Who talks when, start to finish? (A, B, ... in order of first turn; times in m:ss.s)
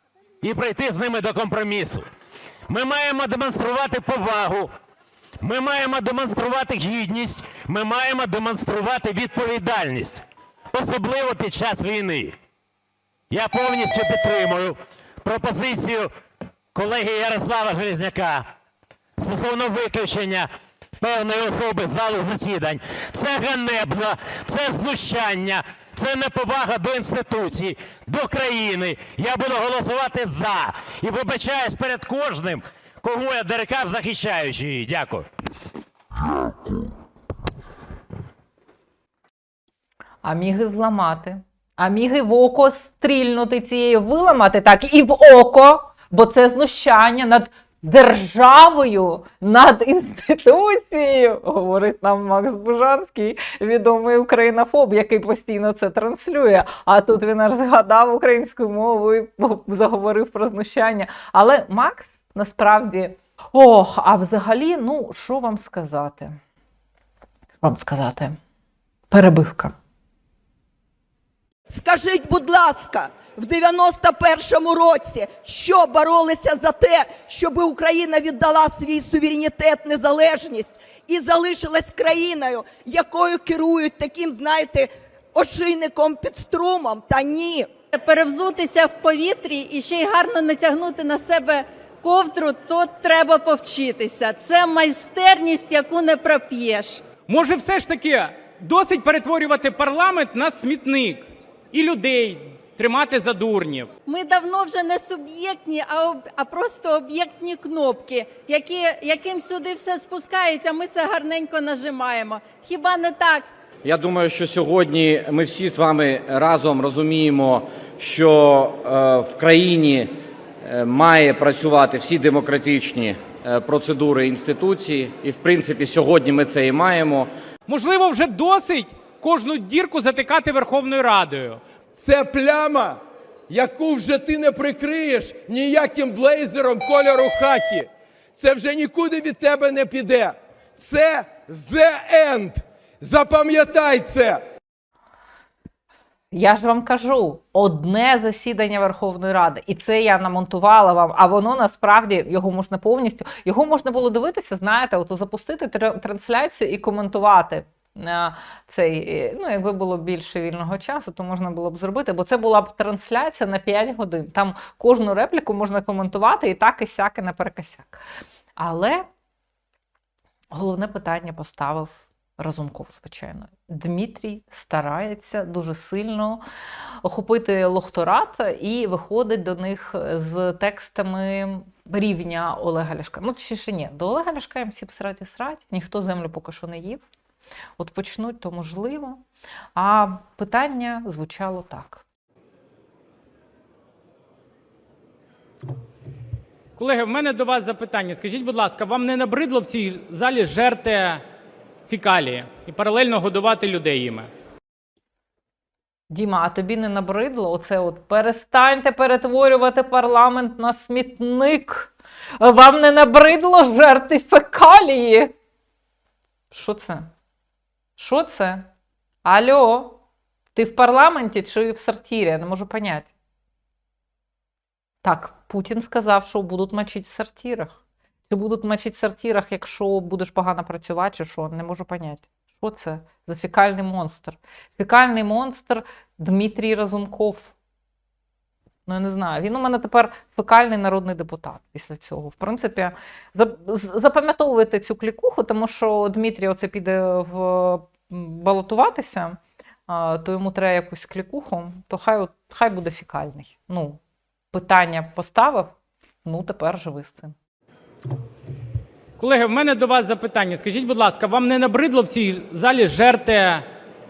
0:00.4-0:02.1 A
0:02.7-0:04.7 A
0:05.4-0:12.3 A
0:13.3-0:16.1 A
0:16.7-0:18.5 A
0:19.2-0:20.5 A
0:21.0-0:35.3 A
0:40.2-1:06.4 B
1:07.6-1:08.4 B
1:09.1-1:09.7 B
1:11.7-1:27.7 C
1:27.9-1:37.0 D
1:37.3-1:43.9 E
1:44.0-1:53.5 D
1:53.8-2:07.3 F
2:07.7-2:11.6 E
2:12.0-2:24.4 G
2:26.3-2:48.0 B
2:48.6-2:49.0 B
2:50.5-2:56.4 B
2:57.0-3:07.0 B
3:07.8-3:09.2 B
3:09.8-3:12.0 B
3:16.8-3:21.2 E
3:21.9-3:24.3 E
3:26.1-3:35.3 B
3:36.5-3:37.1 B
3:38.0-3:38.7 B
3:39.2-3:40.0 B
3:40.5-3:43.1 B
3:45.0-3:57.5 B
3:58.9-4:14.0 B
4:14.5-4:15.7 B
4:16.2-4:17.3 B
4:19.2-4:23.6 E